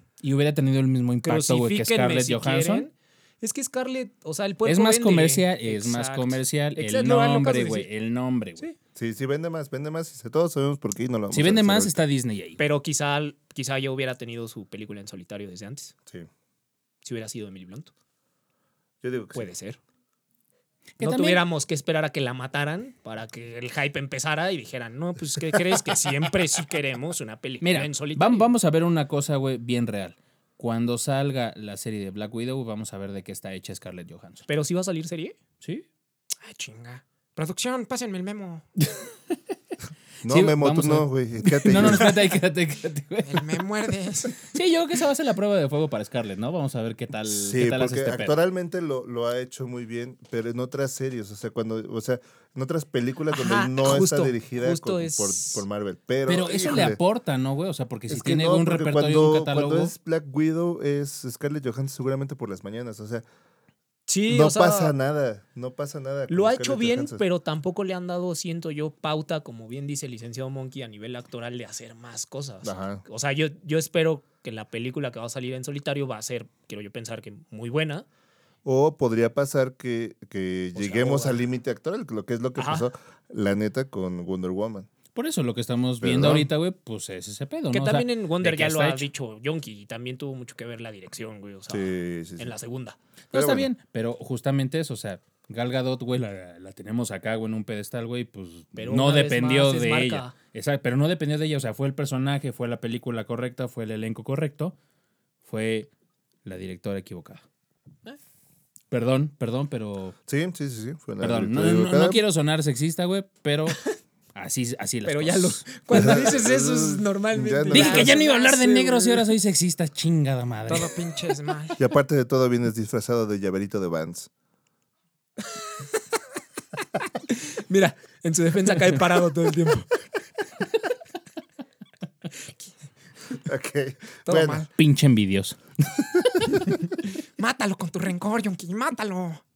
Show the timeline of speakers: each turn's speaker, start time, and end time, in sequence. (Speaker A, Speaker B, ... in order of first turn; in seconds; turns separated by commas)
Speaker A: 0.2-2.9, Speaker B: 1.2-7.9, Speaker A: 4.7-8.7, Speaker C: 9.0-12.0, Speaker A: 11.3-12.6, Speaker B: 12.6-15.9, Speaker B: 17.0-17.9, Speaker C: 19.0-19.5, Speaker B: 19.3-19.8, Speaker A: 21.0-21.4, Speaker B: 21.0-28.5, Speaker A: 27.6-34.5, Speaker B: 34.5-35.4, Speaker D: 36.5-38.6, Speaker C: 40.2-42.1, Speaker A: 40.3-43.6, Speaker D: 43.3-44.4, Speaker A: 44.4-48.4, Speaker C: 47.3-57.0, Speaker B: 53.3-55.6, Speaker A: 56.3-59.9, Speaker C: 58.1-63.2, Speaker B: 64.1-65.0, Speaker C: 64.3-67.2, Speaker B: 66.3-78.1, Speaker C: 72.6-73.0, Speaker C: 78.7-84.9, Speaker B: 80.8-81.4, Speaker B: 82.6-82.9, Speaker A: 85.2-89.1, Speaker C: 86.0-86.5, Speaker B: 87.7-93.0, Speaker C: 91.7-92.5, Speaker A: 93.3-104.8, Speaker C: 93.3-93.7, Speaker B: 98.8-100.3, Speaker A: 105.4-105.9, Speaker A: 106.4-107.4, Speaker A: 108.9-110.2, Speaker C: 110.3-112.2, Speaker A: 111.2-113.8, Speaker A: 114.3-115.7, Speaker B: 115.1-118.8, Speaker C: 115.9-118.2, Speaker D: 116.0-116.5, Speaker D: 117.6-118.7, Speaker A: 117.7-120.9, Speaker D: 120.7-121.8, Speaker C: 121.8-124.3, Speaker B: 127.7-129.9, Speaker C: 133.4-134.7, Speaker B: 134.3-134.7, Speaker A: 134.8-135.6, Speaker C: 136.0-136.5, Speaker D: 137.4-139.4